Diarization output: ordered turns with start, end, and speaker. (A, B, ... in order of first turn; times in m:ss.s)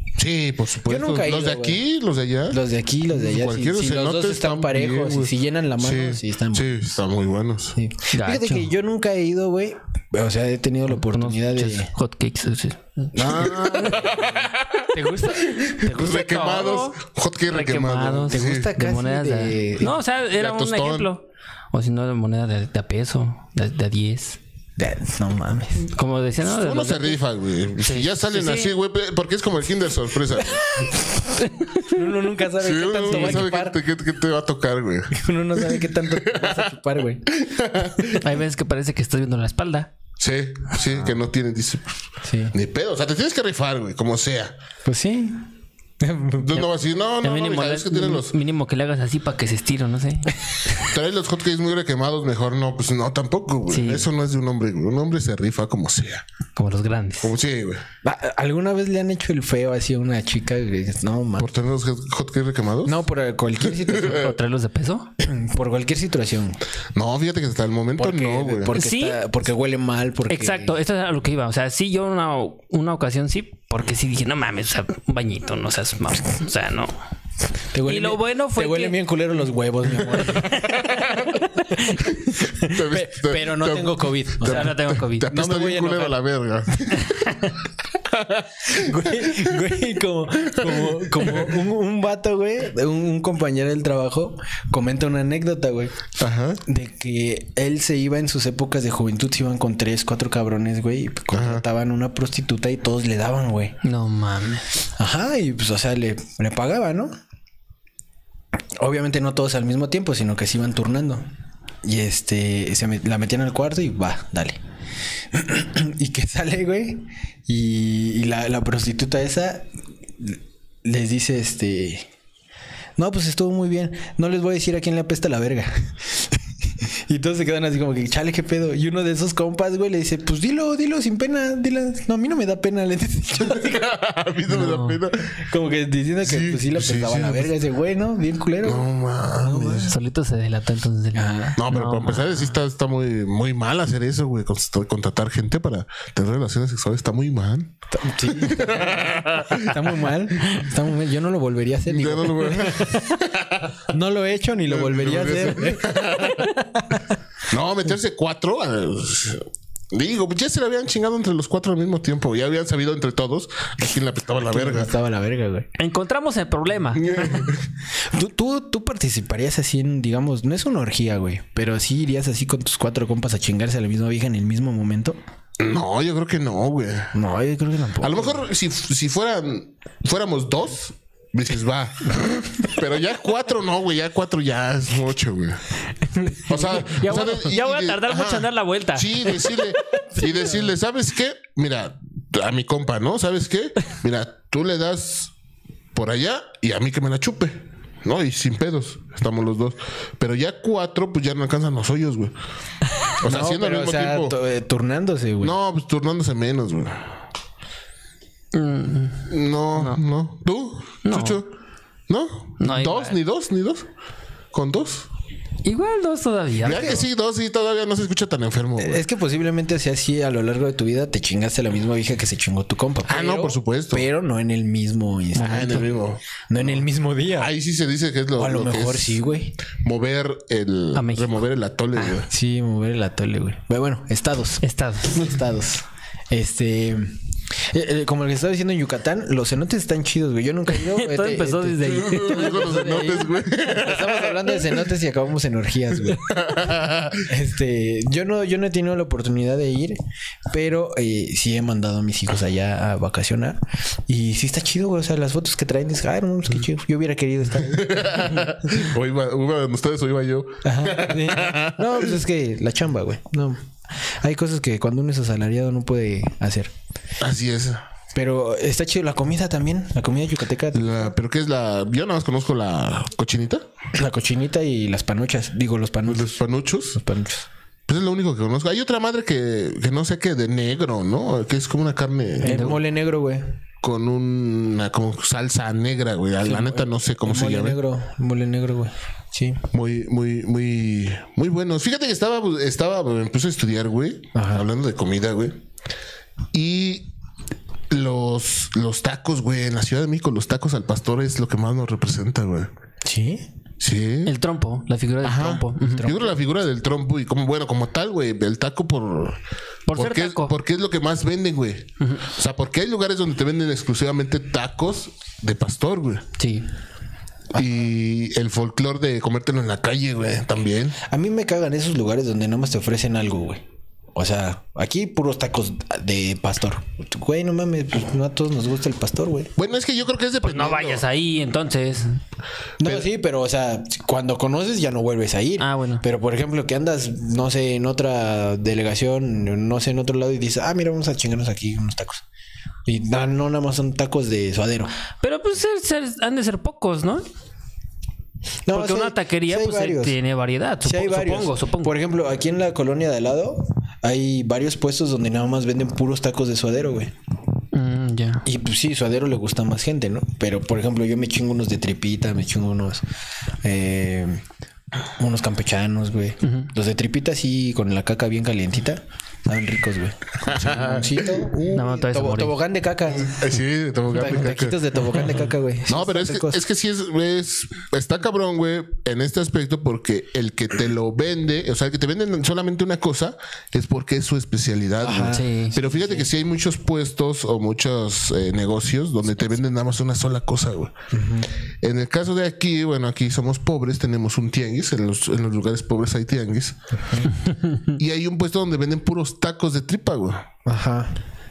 0:00.2-0:07.8 A
0:00.9-0:01.8 B
0:02.5-0:06.8 B
0:07.8-0:11.9 B
0:08.1-0:08.7 C
0:11.0-0:14.0 C
0:13.2-0:14.9 A
0:13.2-0:14.0 B
0:14.9-0:16.2 B
0:15.5-0:18.7 A
0:15.9-0:17.0 C
0:17.5-0:24.4 C
0:18.3-0:20.0 B
0:20.4-0:21.1 A
0:24.8-0:25.9 B
0:25.8-0:27.2 C
0:26.4-0:30.8 A
0:27.8-0:28.7 C
0:30.8-0:31.1 B
0:31.8-0:33.8 B
0:32.6-0:36.7 A
0:33.1-0:33.5 C
0:35.1-0:37.3 B
0:37.3-0:38.2 A
0:38.1-0:39.9 C
0:40.2-0:44.6 A
0:42.2-0:42.5 B
0:44.8-0:46.6 B
0:46.4-0:48.4 A
0:47.2-0:50.8 C
0:50.8-0:56.3 A
0:53.7-0:54.1 C
0:56.6-0:57.3 C
0:57.2-0:57.8 A
0:58.0-1:01.5 B
1:01.4-1:03.1 A
1:02.8-1:04.3 B
1:03.9-1:04.3 A
1:04.0-1:05.1 C
1:05.2-1:06.6 B
1:06.9-1:08.7 A
1:08.0-1:10.8 B
1:08.7-1:09.2 C
1:10.3-1:16.9 C
1:17.7-1:20.6 B
1:17.9-1:19.0 C
1:20.4-1:22.5 C
1:20.6-1:21.4 A
1:22.6-1:27.4 A
1:22.6-1:26.2 B
1:24.4-1:25.4 C
1:27.0-1:27.5 C
1:28.0-1:29.4 A
1:28.7-1:36.0 B
1:30.5-1:31.5 A
1:36.2-1:36.6 A
1:36.6-1:43.8 B
1:41.3-1:41.6 A
1:43.8-1:44.6 C
1:44.9-1:47.1 B
1:48.8-1:51.3 B
1:51.8-1:54.6 B
1:55.3-1:59.7 B
2:00.2-2:02.1 B
2:03.0-2:13.8 B
2:13.5-2:15.3 A
2:14.6-2:15.0 C
2:15.4-2:18.9 B
2:16.2-2:17.5 A
2:18.6-2:20.0 A
2:19.4-2:19.9 B
2:19.9-2:22.5 C
2:21.2-2:21.6 B
2:21.6-2:29.8 A
2:27.9-2:33.0 B
2:31.9-2:33.8 A
2:33.9-2:36.2 B
2:34.7-2:36.5 A
2:36.8-2:37.1 B
2:37.5-2:44.9 A
2:44.5-2:45.7 B
2:45.8-2:47.5 C
2:47.0-2:47.6 A
2:48.0-2:55.2 B
2:55.6-2:57.2 A
2:57.1-2:58.4 B
2:58.0-3:05.6 A
3:06.3-3:10.0 C
3:06.5-3:15.3 A
3:15.9-3:22.4 A
3:23.2-3:24.4 A
3:23.2-3:25.6 B
3:25.4-3:27.2 A
3:28.5-3:30.0 C
3:29.3-3:31.5 A
3:31.1-3:31.4 C
3:32.1-3:33.9 A
3:32.6-3:33.2 C
3:34.5-3:35.1 A
3:35.6-3:37.0 C
3:36.6-3:39.0 A
3:38.8-3:45.9 B
3:43.1-3:44.1 A
3:45.4-3:52.3 A
3:45.4-3:45.9 C
3:46.5-3:47.5 B
3:48.4-3:49.6 B
3:51.0-3:51.4 C
3:52.1-4:06.3 B
3:54.6-3:55.3 C
4:00.7-4:03.3 C
4:01.8-4:04.6 A
4:06.1-4:07.3 A
4:07.3-4:10.0 B
4:10.5-4:18.6 B
4:17.7-4:22.1 A
4:20.6-4:26.7 B
4:27.2-4:27.8 A
4:28.1-4:31.1 B
4:30.7-4:33.7 A
4:33.9-4:37.5 B
4:36.1-4:37.0 A
4:37.9-4:42.8 A
4:42.4-4:43.5 B
4:42.5-4:42.8 C
4:43.8-4:47.8 A
4:46.4-4:49.6 B
4:49.7-4:55.6 A
4:54.4-4:54.7 B
4:56.5-4:57.1 A
4:57.9-5:02.7 A
5:03.0-5:03.5 B
5:03.8-5:04.3 A
5:04.2-5:06.1 C
5:05.2-5:09.4 A
5:05.8-5:06.4 B
5:09.9-5:10.5 C
5:09.9-5:16.2 A
5:16.4-5:16.7 C
5:17.5-5:21.0 A
5:21.0-5:23.6 B
5:24.2-5:29.5 B
5:29.6-5:31.0 A
5:30.4-5:32.2 C
5:32.8-5:42.2 B
5:35.6-5:36.0 C
5:42.9-5:44.9 B
5:45.2-5:47.2 C
5:48.7-5:50.2 B
5:48.7-5:51.9 C
5:50.8-5:57.1 B
5:57.7-5:58.5 C
5:58.4-6:03.0 B
6:03.6-6:04.4 B
6:05.2-6:13.4 B
6:06.4-6:06.7 C
6:10.4-6:11.9 A
6:11.7-6:12.6 C
6:13.2-6:15.0 A
6:14.1-6:16.6 B
6:15.9-6:30.9 A
6:25.0-6:26.3 B
6:25.3-6:25.7 C
6:31.1-6:31.5 B
6:31.8-6:37.3 A
6:37.0-6:37.3 B
6:37.9-6:40.5 A
6:40.6-6:41.1 B